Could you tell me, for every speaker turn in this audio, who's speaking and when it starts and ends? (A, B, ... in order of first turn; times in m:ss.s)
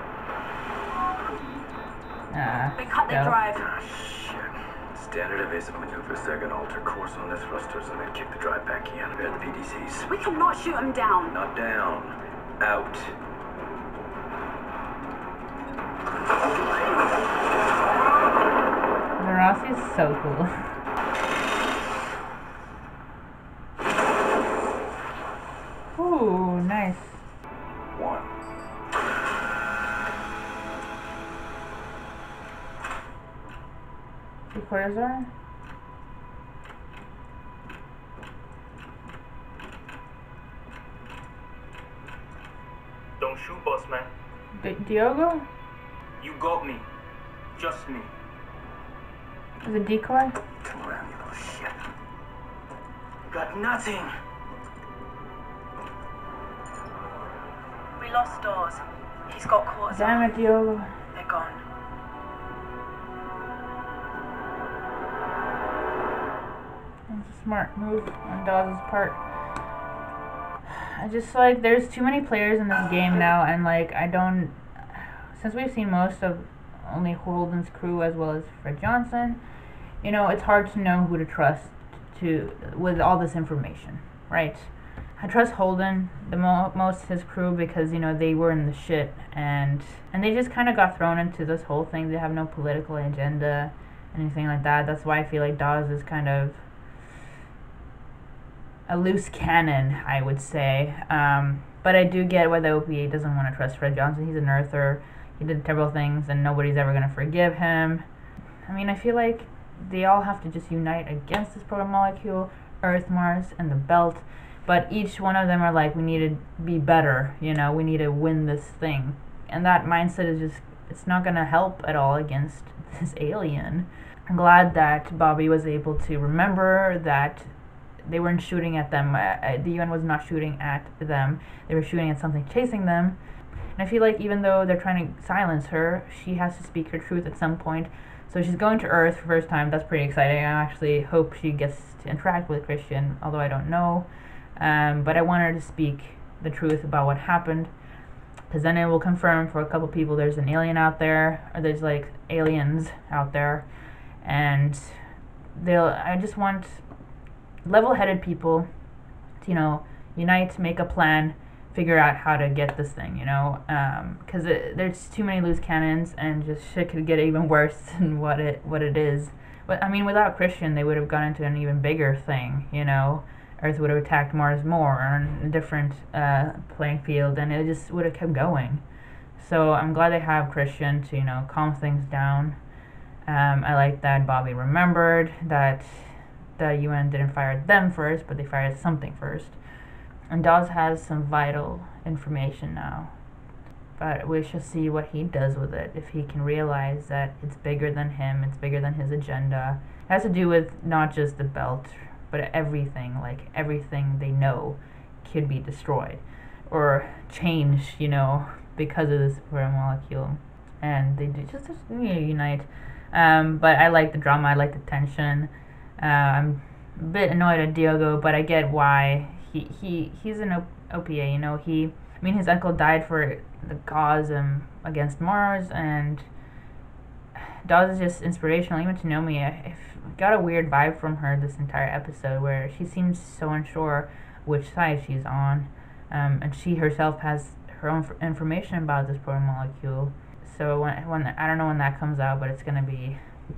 0:02.3-0:03.4 A
0:02.8-0:03.6 B
0:03.4-0:10.2 C
0:10.1-0:11.3 B
0:11.2-0:13.2 C
0:19.2-0:20.5 A
0:25.9-0:27.2 A
0:28.0-0:28.2 C
0:34.5-0:35.3 A
0:43.2-0:44.1 D
0:44.6-0:45.4 A
0:46.2-0:46.8 D
0:47.6-0:48.1 D
0:49.6-0:50.4 A
0:50.6-0:51.8 C
0:53.3-0:54.1 D
0:58.0-1:00.3 B
0:59.9-1:00.9 A
1:01.1-1:01.6 B
1:07.1-1:09.2 A
1:10.6-1:19.4 A
1:20.0-1:36.7 A
1:38.9-1:48.0 A
1:48.6-2:13.2 A
2:13.7-2:27.7 A
2:28.5-2:33.7 A
2:34.2-2:36.8 A
2:37.6-2:38.7 A
2:39.4-2:58.8 A
2:59.4-3:02.6 A
3:03.2-3:09.6 A
3:10.3-3:13.2 A
3:14.0-3:46.3 A
3:47.6-4:03.2 A